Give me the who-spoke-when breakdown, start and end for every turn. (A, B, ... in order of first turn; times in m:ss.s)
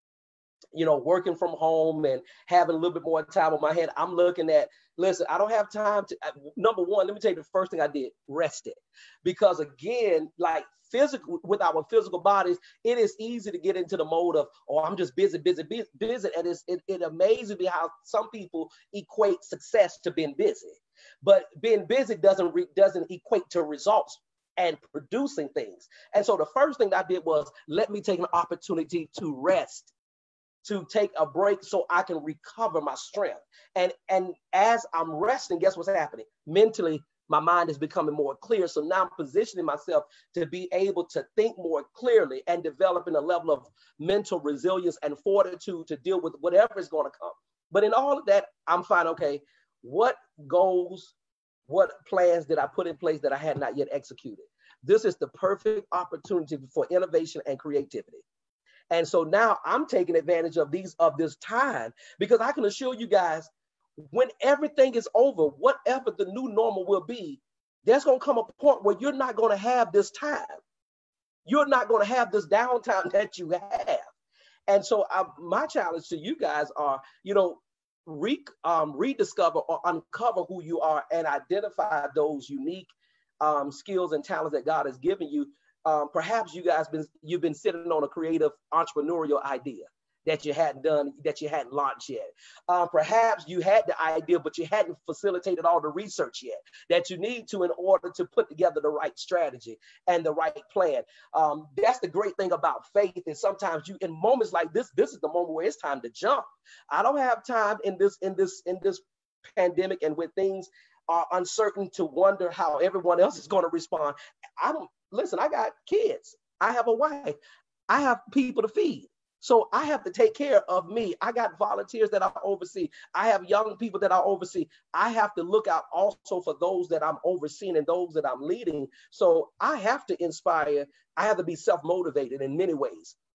0:00.7-0:29.9 A
0:30.6-0:51.1 A
0:51.7-0:58.2 A
0:58.9-1:03.5 A
1:04.0-1:10.6 A
1:11.5-1:14.1 A
1:14.7-1:22.9 A
1:23.4-1:49.0 A
1:49.5-1:57.4 A
1:57.9-2:13.2 A